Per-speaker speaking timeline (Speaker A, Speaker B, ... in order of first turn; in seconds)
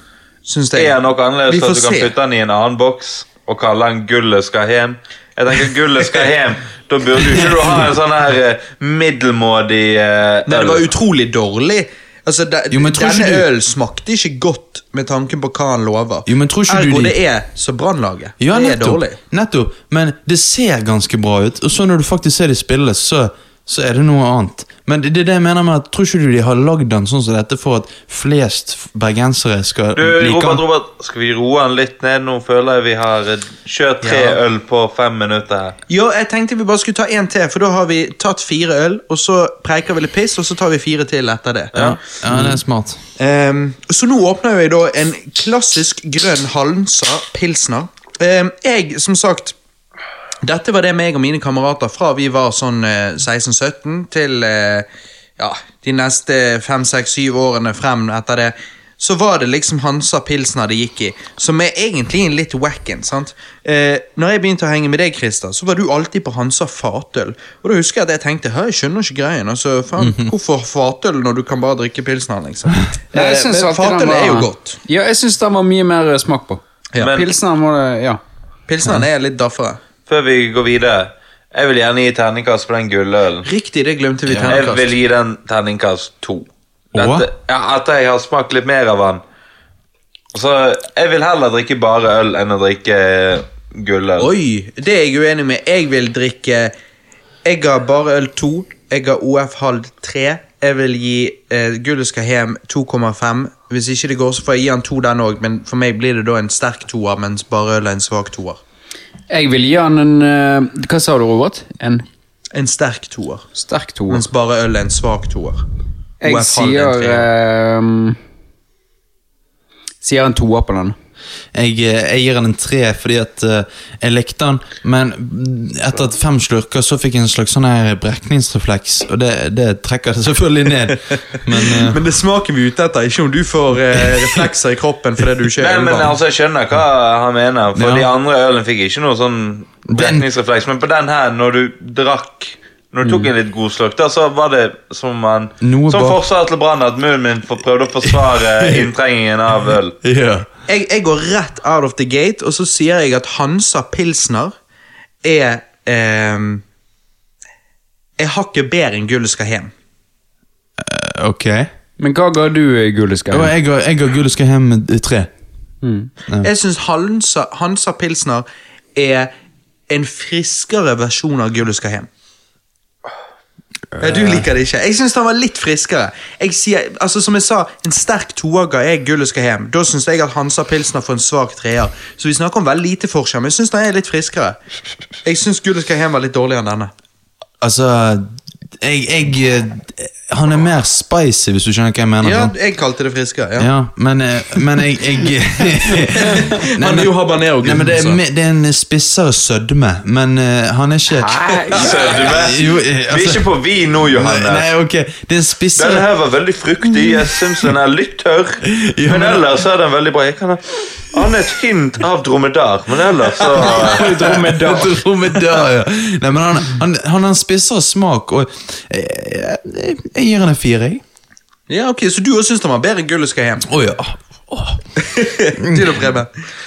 Speaker A: 0.5-0.9, 1.5-2.1, 10.5-19.2, 34.0-34.4, 35.9-41.9, 43.2-49.5, 50.4-54.9, 55.4-74.8, 78.7-79.8, 83.5-84.9, 94.2-96.7, 97.5-108.6, 112.5-113.5, 114.1-115.7, 116.2-117.3, 131.6-136.1, 150.7-154.5, 155.2-156.6, 158.2-159.7, 166.4-169.3, 169.9-172.1, 174.0-184.6, 185.2-186.9, 192.2-193.7, 196.1-198.2, 221.7-223.7, 225.0-226.3
Speaker B: 0.7-10.8, 30.0-35.8, 77.0-77.3, 80.1-83.5, 84.5-89.2, 90.3-94.3, 135.6-150.0, 201.7-204.7, 205.8-214.3
Speaker C: 12.7-13.5, 16.3-17.2, 18.4-30.6, 41.8-43.0, 70.0-70.3, 84.3-84.5, 86.9-87.3, 121.5-132.0, 137.8-138.1, 139.9-140.2, 145.6-146.2, 148.0-148.9, 150.0-150.5, 160.8-161.7, 163.3-165.3, 173.9-174.5, 187.6-192.5, 193.6-203.5, 204.1-206.1, 208.7-209.4, 213.8-221.0, 223.7-224.8, 225.6-226.0
Speaker D: 73.1-78.2, 109.3-112.0, 113.6-114.3, 116.2-118.2, 120.0-121.0, 162.0-163.5, 165.8-166.1, 201.2-202.2, 213.6-215.0